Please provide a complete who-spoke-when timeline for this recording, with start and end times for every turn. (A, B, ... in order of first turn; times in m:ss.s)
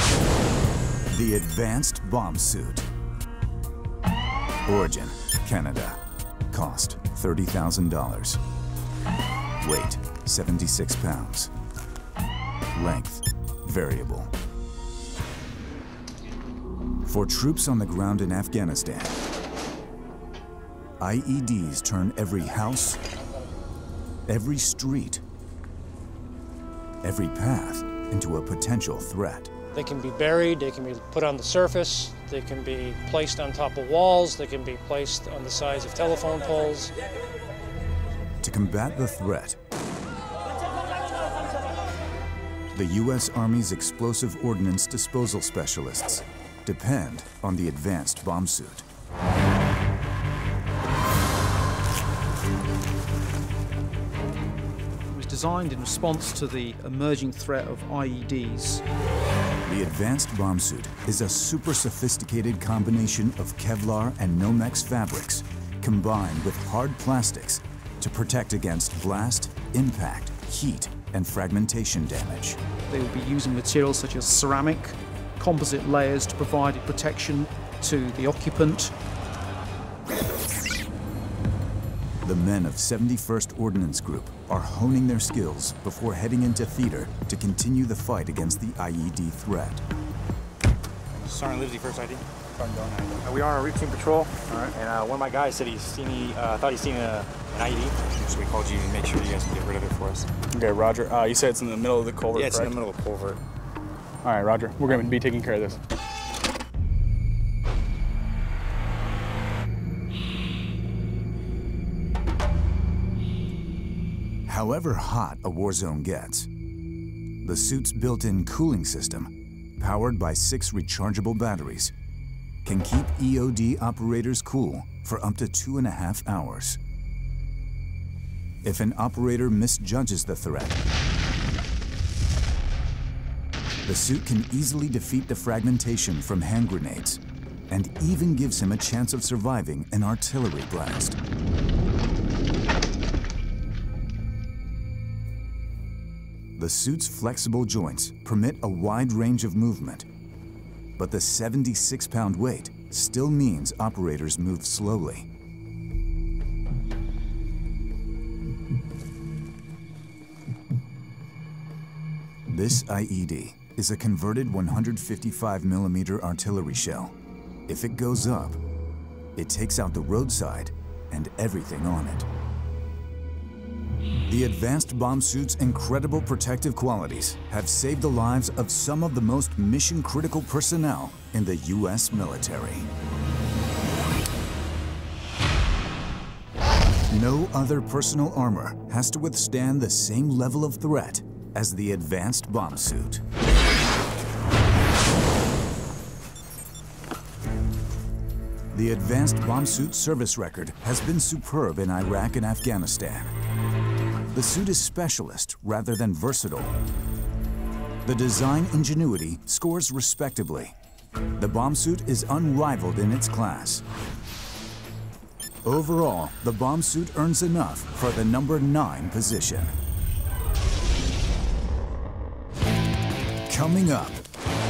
0:01.1-0:02.9 A
0:04.6-0:08.4 A
0:09.6-0:11.5 A
0:12.7-0:14.3 A
0:17.0-0:19.2 A
0:21.0-0:23.0 A
0:24.3-0:25.2 A
0:27.0-0:29.5 A
0:29.7-0:36.9 B
0:38.4-0:39.6 A
0:42.7-0:48.8 A
0:55.1-0:58.8 C
0:59.6-1:12.6 A
1:12.9-1:18.9 C
1:22.2-1:29.8 A
1:31.1-1:32.4 D
1:32.6-1:33.2 E
1:33.2-1:40.3 D
1:40.5-1:42.8 E
1:42.3-1:43.4 D
1:44.2-1:45.8 E
1:54.5-1:56.5 A
1:57.4-2:01.9 A
2:02.6-2:06.8 A
2:08.6-2:10.8 A
2:13.8-2:21.2 A
2:26.6-2:30.0 A
2:31.0-2:35.3 A
2:42.5-2:47.1 A
2:47.7-2:48.6 A
2:49.4-2:52.3 A
2:54.2-3:02.9 A
3:07.1-3:13.2 A
3:18.7-3:23.3 A
3:24.3-3:26.7 A
3:28.0-3:30.8 A
3:31.4-3:33.8 A
3:35.6-3:39.7 A
3:43.5-3:44.2 A